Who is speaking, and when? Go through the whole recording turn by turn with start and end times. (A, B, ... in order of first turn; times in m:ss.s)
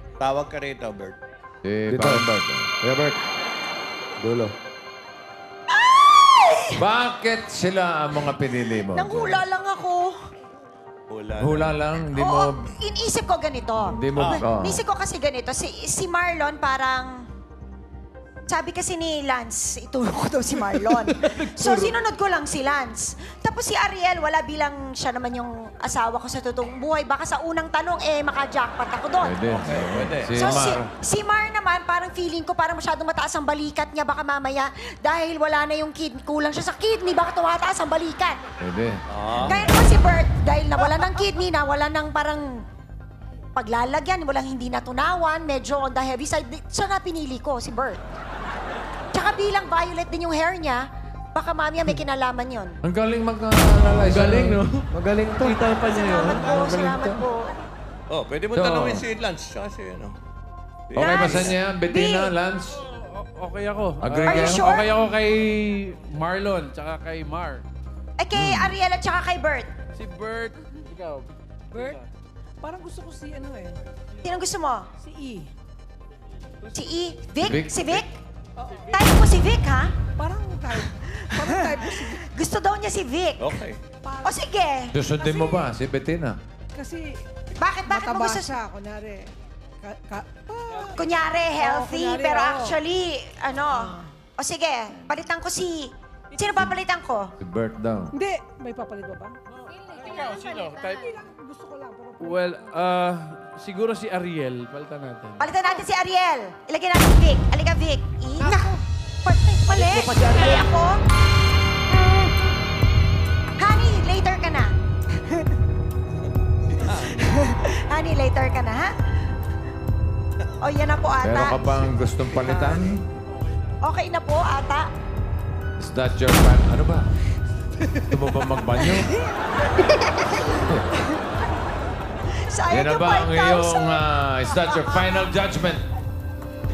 0:00.2-0:01.1 A
0:01.6-0:02.7 B
0:01.9-0:02.2 C
0:02.8-0:03.2 C
0:04.2-0:04.5 C
0:05.7-0:06.8 D
0:06.8-0:09.4 B
0:08.9-0:10.2 D
0:11.1-0:11.7 A
0:11.4-0:12.6 B
0:12.2-0:17.1 D
0:13.8-0:14.8 B
0:14.1-0:14.4 A
0:18.5-0:29.3 D
0:29.2-0:30.9 B
0:29.5-0:30.6 A
0:30.3-0:38.4 D
0:38.6-0:39.8 B
0:39.1-0:39.7 A
0:39.5-0:42.6 D
0:43.6-0:48.0 D
0:49.1-0:52.8 D
0:52.8-0:54.6 B
0:53.9-0:54.9 E
0:54.9-0:55.6 C
0:55.4-0:56.5 E
0:55.9-0:57.5 D
0:56.4-0:57.2 B
0:58.1-1:00.1 A
0:58.5-0:59.0 B
1:00.9-1:01.6 A
1:01.0-1:02.8 B
1:01.0-1:02.3 D
1:03.1-1:07.6 F
1:04.0-1:04.9 B
1:04.2-1:04.9 D
1:08.2-1:09.7 D
1:08.4-1:08.7 B
1:09.9-1:11.2 F
1:11.7-1:12.0 G
1:12.6-1:13.8 G
1:14.2-1:14.8 D
1:15.0-1:15.5 G
1:16.7-1:18.2 D
1:17.4-1:18.0 B
1:18.6-1:19.0 G
1:18.9-1:19.9 D
1:20.2-1:22.2 G
1:21.3-1:23.5 D
1:23.4-1:23.8 A
1:24.0-1:24.4 G
1:24.2-1:24.9 D
1:24.9-1:26.4 B
1:25.2-1:25.5 G
1:26.8-1:27.1 G
1:27.6-1:28.5 D
1:27.9-1:29.2 G
1:29.8-1:32.8 G
1:31.0-1:37.3 D
1:36.3-1:36.7 G
1:37.4-1:38.1 B
1:38.1-1:42.7 G
1:42.2-1:45.4 F
1:45.4-1:51.0 D
1:49.7-1:50.7 C
1:53.6-1:55.5 D
1:56.7-1:57.3 A
1:57.1-1:58.9 D
2:00.6-2:01.6 D
2:01.2-2:03.0 B
2:02.4-2:02.8 A
2:03.8-2:04.9 D
2:05.8-2:07.0 B
2:08.1-2:09.1 B
2:12.5-2:15.1 D
2:12.7-2:15.8 B